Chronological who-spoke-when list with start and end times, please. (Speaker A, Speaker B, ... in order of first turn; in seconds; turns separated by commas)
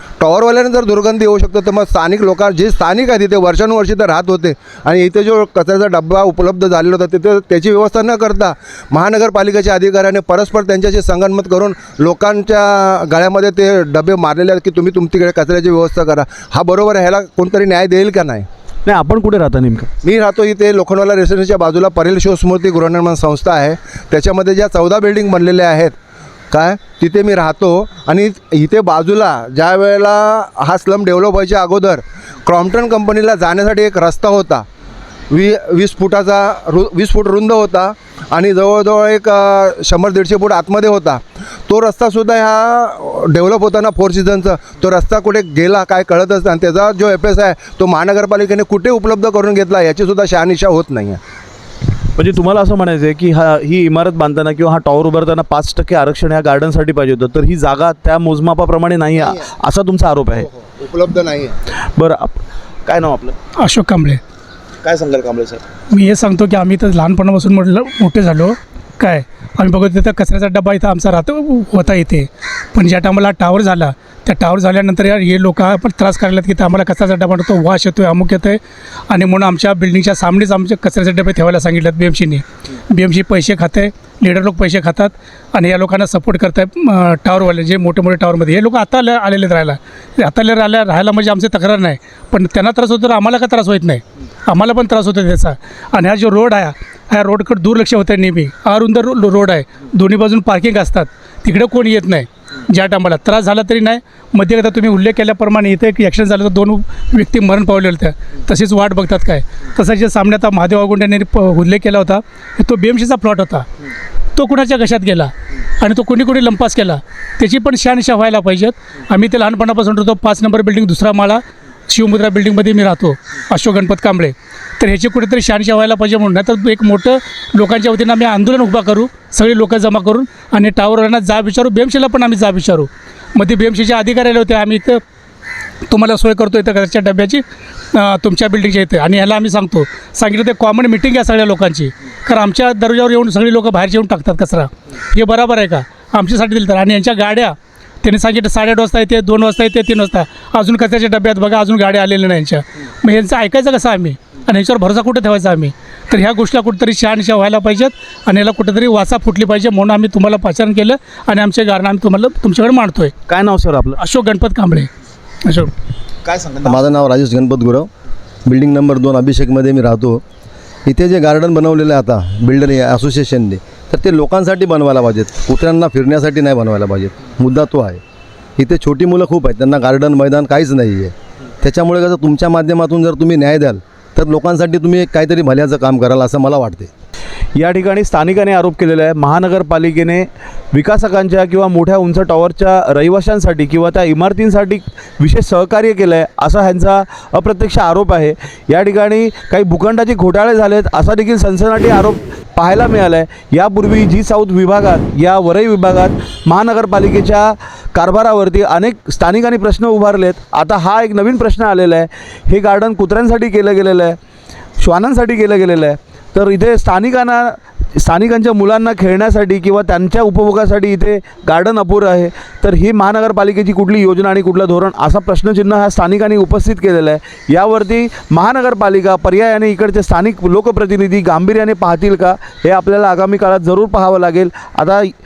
Speaker A: 0.2-18.5, Speaker B: 18.9-19.9, Speaker A: 20.0-25.9, Speaker A: 26.5-34.7, Speaker A: 35.3-51.2, Speaker B: 52.2-60.5, Speaker A: 60.5-61.6, Speaker B: 62.0-63.4, Speaker C: 63.6-64.2, Speaker B: 64.8-65.6, Speaker C: 65.9-113.7, Speaker C: 114.4-135.0, Speaker C: 135.9-163.1, Speaker B: 163.3-164.0, Speaker C: 164.0-164.9, Speaker C: 165.4-165.7, Speaker B: 166.3-166.7, Speaker D: 166.6-167.9, Speaker D: 168.5-170.2, Speaker D: 170.9-178.0, Speaker D: 178.6-186.9, Speaker B: 187.6-214.2, Speaker B: 214.8-235.1